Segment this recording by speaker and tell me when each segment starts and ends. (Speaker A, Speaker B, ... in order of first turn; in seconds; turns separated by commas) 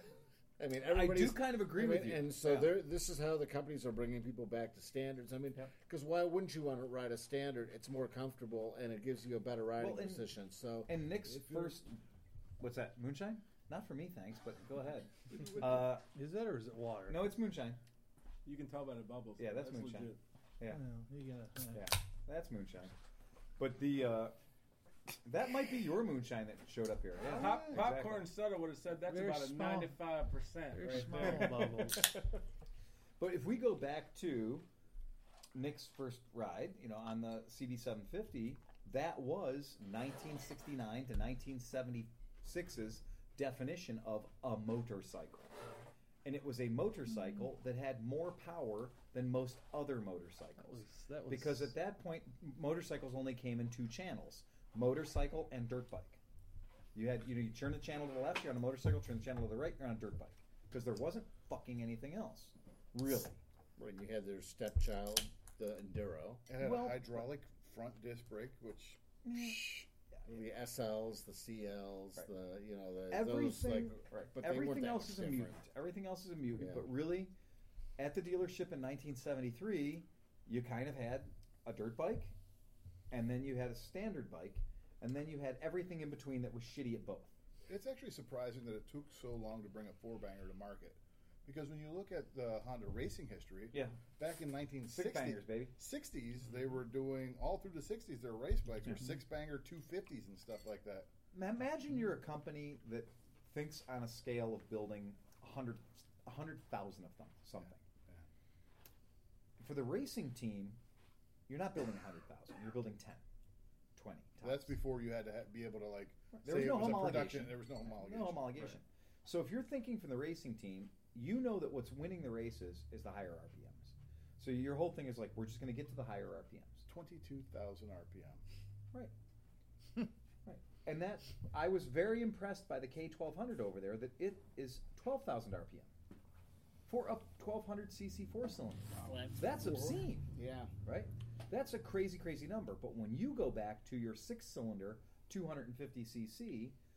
Speaker A: 0.6-11.1, Speaker B: 0.9-2.8, Speaker B: 9.8-10.3, Speaker B: 10.9-12.0, Speaker B: 12.6-16.1, Speaker C: 15.3-17.2, Speaker B: 17.1-17.8, Speaker D: 18.4-20.2, Speaker B: 19.4-20.9, Speaker C: 20.7-21.8, Speaker B: 21.7-22.9, Speaker B: 23.6-24.4, Speaker B: 25.2-28.3, Speaker D: 27.3-31.7, Speaker C: 27.4-27.8, Speaker C: 29.1-30.0, Speaker C: 30.7-32.1, Speaker B: 30.9-32.1, Speaker B: 33.2-34.7, Speaker B: 35.5-45.5, Speaker B: 46.2-56.2, Speaker C: 50.7-51.7, Speaker B: 56.9-63.4, Speaker A: 63.8-66.5, Speaker E: 66.5-69.8, Speaker B: 66.6-67.3, Speaker B: 69.2-69.8, Speaker A: 70.3-75.6, Speaker B: 73.1-77.3, Speaker A: 76.5-76.9, Speaker B: 78.0-82.3, Speaker B: 83.1-87.3, Speaker E: 87.7-101.1, Speaker B: 93.7-94.0, Speaker B: 94.9-95.8, Speaker B: 101.3-107.8, Speaker B: 109.6-110.8, Speaker B: 111.5-113.2, Speaker B: 114.0-114.7, Speaker E: 114.4-118.8, Speaker B: 116.3-126.9, Speaker E: 126.9-128.4, Speaker B: 130.5-135.9, Speaker B: 136.9-140.3, Speaker A: 139.0-140.7, Speaker B: 140.8-146.8